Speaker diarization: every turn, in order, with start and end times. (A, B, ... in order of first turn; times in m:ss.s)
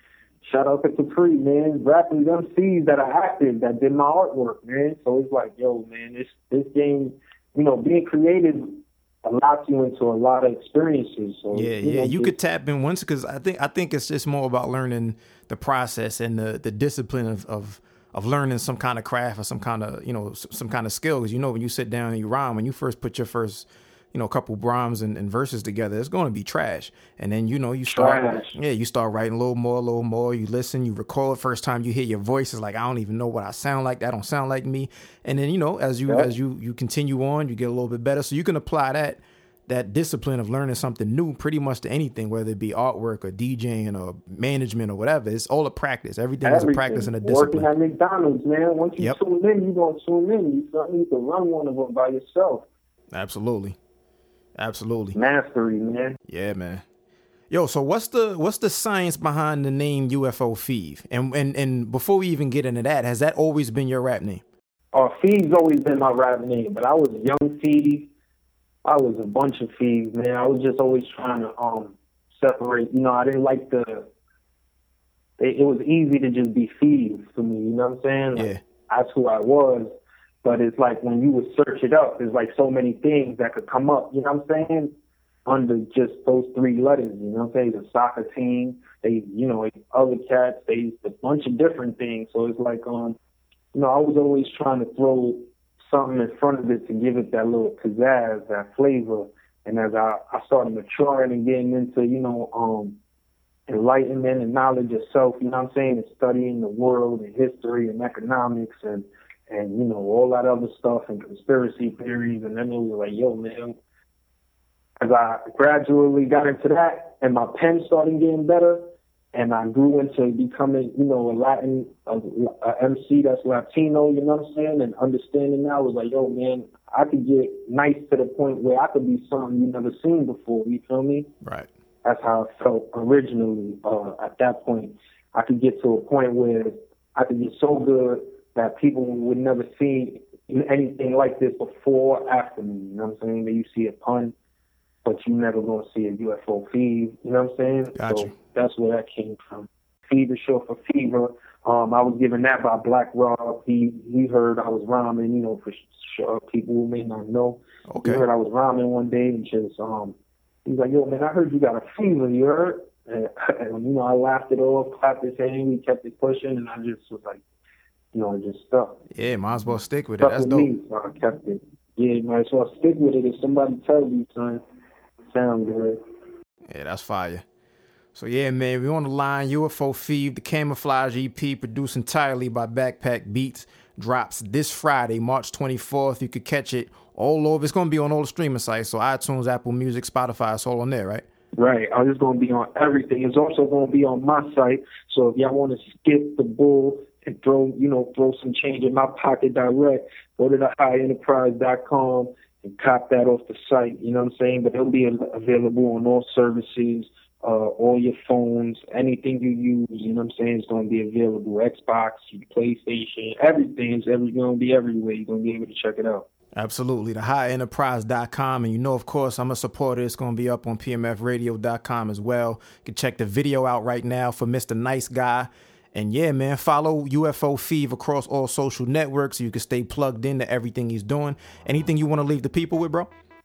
0:00.4-0:12.4 A
0:11.5-0:47.7 B
0:27.9-0:28.6 A
0:46.4-0:52.7 A
0:53.1-0:53.8 B
0:54.6-0:55.2 B
0:55.2-0:56.2 A
0:56.3-0:56.8 B
0:57.5-1:04.4 B
1:04.9-1:08.1 A
1:08.8-1:14.1 A
1:15.4-1:24.9 A
1:18.4-1:18.6 B
1:25.5-1:33.2 A
1:33.7-1:43.0 A
1:43.7-1:53.8 A
1:55.0-2:11.3 A
2:11.4-2:11.7 B
2:12.0-2:24.3 A
2:25.0-2:47.4 A
2:28.0-2:28.3 B
2:37.9-2:38.2 B
2:48.1-2:49.0 A
2:49.1-2:50.7 B
2:50.2-2:54.6 A
2:55.2-2:56.0 A
2:56.7-2:57.4 B
2:58.1-3:11.2 B
3:11.6-3:36.3 A
3:36.6-3:53.1 B